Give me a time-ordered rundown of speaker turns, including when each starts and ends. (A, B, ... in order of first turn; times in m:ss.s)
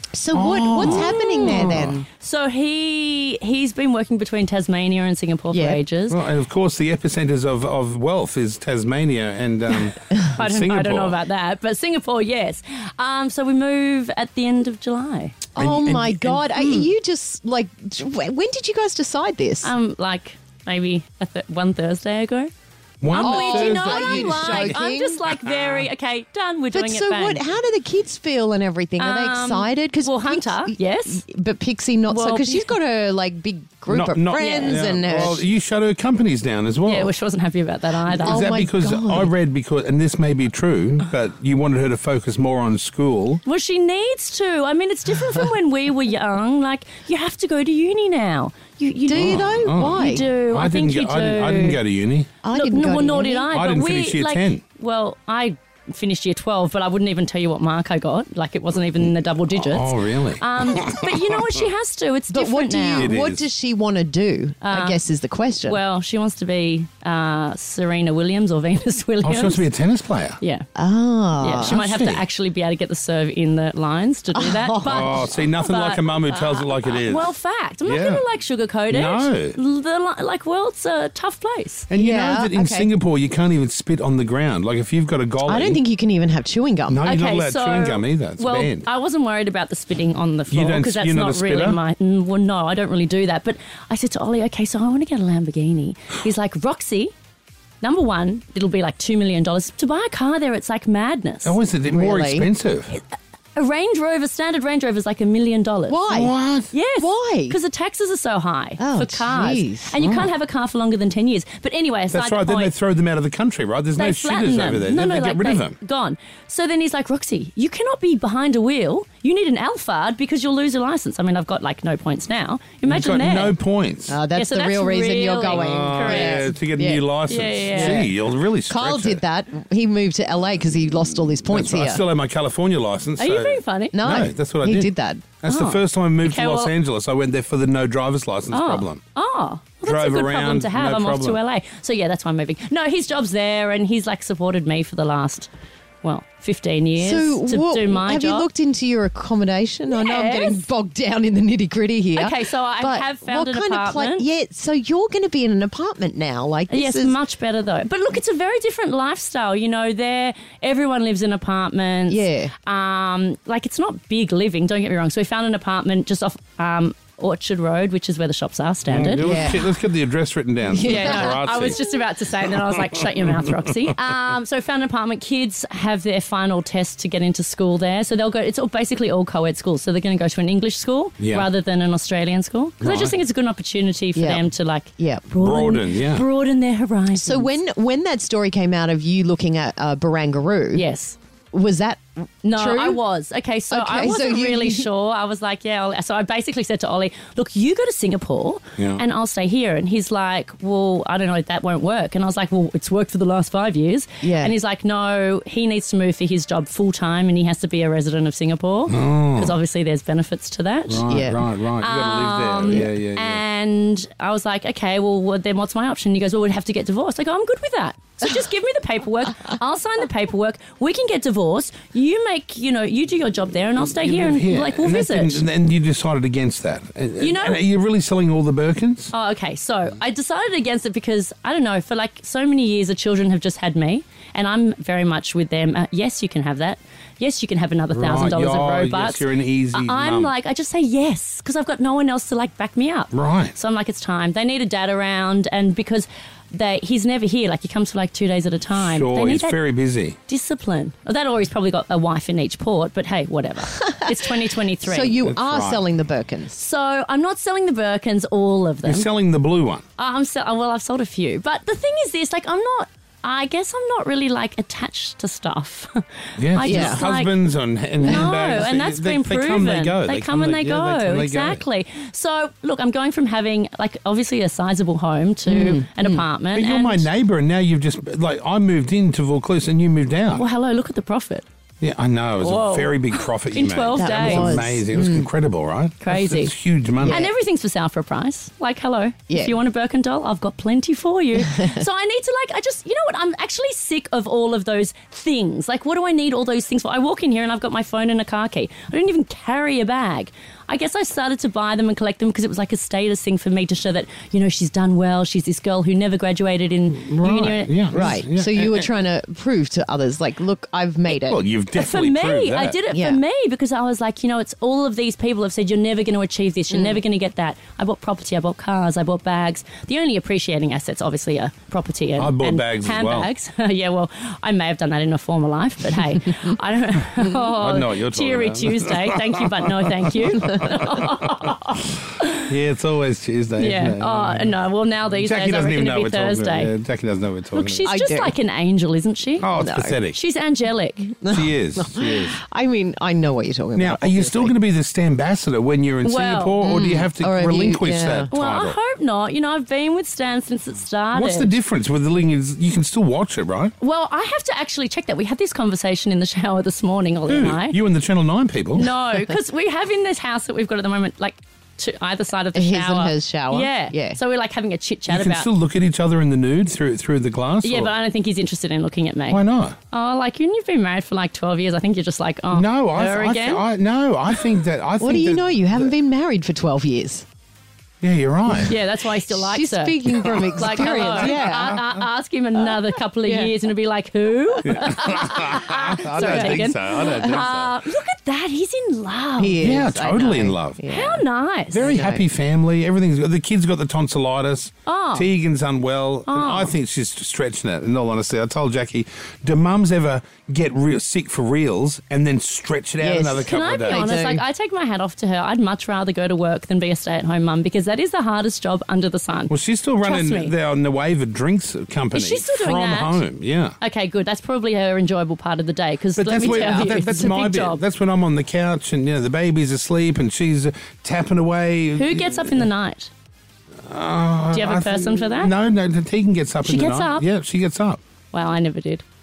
0:00.1-0:02.1 A
0:00.3-0:02.0 B
0:00.8-0:06.2 C
0:05.5-0:05.8 A
0:06.1-0:11.2 B
0:10.3-0:15.4 C
0:15.6-0:19.7 A
0:15.6-0:16.7 B
0:19.6-0:22.5 C
0:23.0-0:25.9 B
0:23.1-0:27.5 C
0:23.2-0:25.2 A
0:26.7-0:35.4 A
0:29.0-0:31.2 C
0:32.1-0:32.7 C
0:33.9-0:37.1 B
0:34.4-0:35.4 C
0:36.8-0:38.5 C
0:38.0-0:43.4 B
0:38.3-0:39.3 A
0:43.4-0:51.8 C
0:49.1-0:50.2 A
0:49.1-0:52.4 B
0:52.4-0:53.5 A
0:52.5-1:03.1 C
0:53.5-0:54.6 B
0:59.5-1:01.6 B
1:02.3-1:05.8 A
1:02.9-1:03.5 B
1:04.6-1:05.0 C
1:05.6-1:09.7 C
1:09.2-1:10.4 B
1:10.4-1:10.7 C
1:10.8-1:11.7 A
1:11.4-1:21.9 C
1:11.6-1:12.2 B
1:14.3-1:15.2 A
1:14.8-1:17.3 B
1:17.9-1:18.3 B
1:18.9-1:19.6 B
1:21.9-1:25.8 B
1:22.0-1:22.9 A
1:25.4-1:27.0 A
1:26.9-1:28.9 B
1:27.0-1:37.1 C
1:30.5-1:31.8 B
1:37.8-1:41.6 C
1:41.4-1:43.0 B
1:41.9-1:42.5 A
1:43.6-1:46.1 C
1:45.9-1:46.3 A
1:46.1-1:46.7 B
1:46.7-1:52.7 C
1:47.0-1:47.6 A
1:48.8-1:49.9 A
1:50.0-1:50.3 B
1:52.1-1:55.8 B
1:54.0-2:03.6 C
2:02.9-2:04.2 B
2:04.1-2:07.0 A
2:04.3-2:06.6 C
2:05.5-2:09.2 B
2:07.3-2:08.1 C
2:07.8-2:08.1 A
2:08.7-2:12.0 A
2:11.5-2:14.9 B
2:13.2-2:14.0 C
2:13.9-2:15.3 A
2:15.4-2:19.0 B
2:15.4-2:16.7 C
2:18.5-2:25.5 C
2:19.8-2:21.4 B
2:26.0-2:28.5 C
2:27.0-2:37.2 A
2:29.9-2:30.7 C
2:32.2-2:34.3 C
2:36.7-2:49.3 C
2:42.1-2:42.5 A
2:48.9-2:51.8 B
2:49.2-2:49.6 A
2:50.7-2:51.4 A
2:50.8-3:07.5 C
2:52.6-2:53.9 B
3:01.2-3:01.5 B
3:02.8-3:03.2 B
3:04.2-3:05.3 A
3:05.4-3:06.2 B
3:07.2-3:10.9 A
3:10.7-3:11.2 C
3:11.5-3:12.0 A
3:12.4-3:31.1 C
3:12.5-3:13.0 A
3:13.7-3:14.9 A
3:18.8-3:19.0 B
3:24.2-3:24.6 A
3:28.9-3:29.6 B
3:30.9-3:33.4 B
3:31.1-3:31.4 A
3:31.8-3:45.4 C
3:43.8-3:49.1 B
3:47.2-3:47.6 C
3:49.1-4:09.6 C
3:57.9-4:00.3 B
4:03.1-4:03.6 B
4:08.7-4:10.2 B
4:10.3-4:15.2 C
4:14.8-4:16.6 A
4:15.2-4:15.8 B
4:16.5-4:19.1 C
4:18.8-4:19.8 B
4:20.0-4:27.4 C
4:26.4-4:31.6 B
4:26.6-4:27.0 A
4:28.0-4:37.1 C
4:35.5-4:36.2 A
4:36.5-4:40.5 B
4:40.3-4:41.4 C
4:41.8-4:47.3 B
4:42.4-4:44.6 C
4:44.0-4:45.3 A
4:46.0-5:08.1 C
4:49.3-4:49.6 A
5:07.0-5:08.9 B
5:08.0-5:11.4 A
5:11.1-5:12.8 B
5:11.7-5:32.4 C
5:12.9-5:13.2 A
5:22.2-5:23.3 B
5:27.4-5:31.6 B
5:32.5-5:34.5 B
5:33.6-5:36.7 C
5:35.1-5:37.9 B
5:37.5-5:39.5 C
5:37.9-5:38.4 A
5:39.4-5:40.2 B
5:39.6-5:40.0 A
5:40.1-5:41.1 C
5:41.2-5:44.5 A
5:41.3-5:42.4 B
5:43.8-5:48.8 B
5:46.0-5:46.6 C
5:46.6-5:48.3 A
5:48.3-5:51.6 C
5:51.1-5:53.7 B
5:53.8-5:57.8 C
5:57.3-5:58.9 B
5:58.7-6:05.5 C
6:02.6-6:04.2 A
6:05.1-6:07.9 B
6:07.6-6:13.6 C
6:09.3-6:09.8 B
6:12.5-6:15.9 B
6:15.0-6:17.2 A
6:18.0-6:18.8 B
6:18.6-6:29.6 C
6:19.3-6:21.8 A
6:20.1-6:22.1 B
6:23.2-6:23.5 A
6:24.6-6:27.8 B
6:26.2-6:26.4 A
6:29.4-6:31.2 A
6:29.6-6:30.9 B
6:30.8-6:31.9 C
6:31.7-6:44.1 B
6:31.9-6:32.2 A
6:34.9-6:35.3 C
6:36.3-6:36.7 C
6:43.0-6:44.4 A
6:43.4-6:50.5 C
6:49.5-6:53.8 B
6:52.1-6:53.2 C
6:53.8-6:57.8 C
6:56.2-7:02.7 B
7:02.0-7:03.1 C
7:03.8-7:08.0 B
7:04.5-7:05.5 C
7:06.6-7:07.3 C
7:08.3-7:09.0 C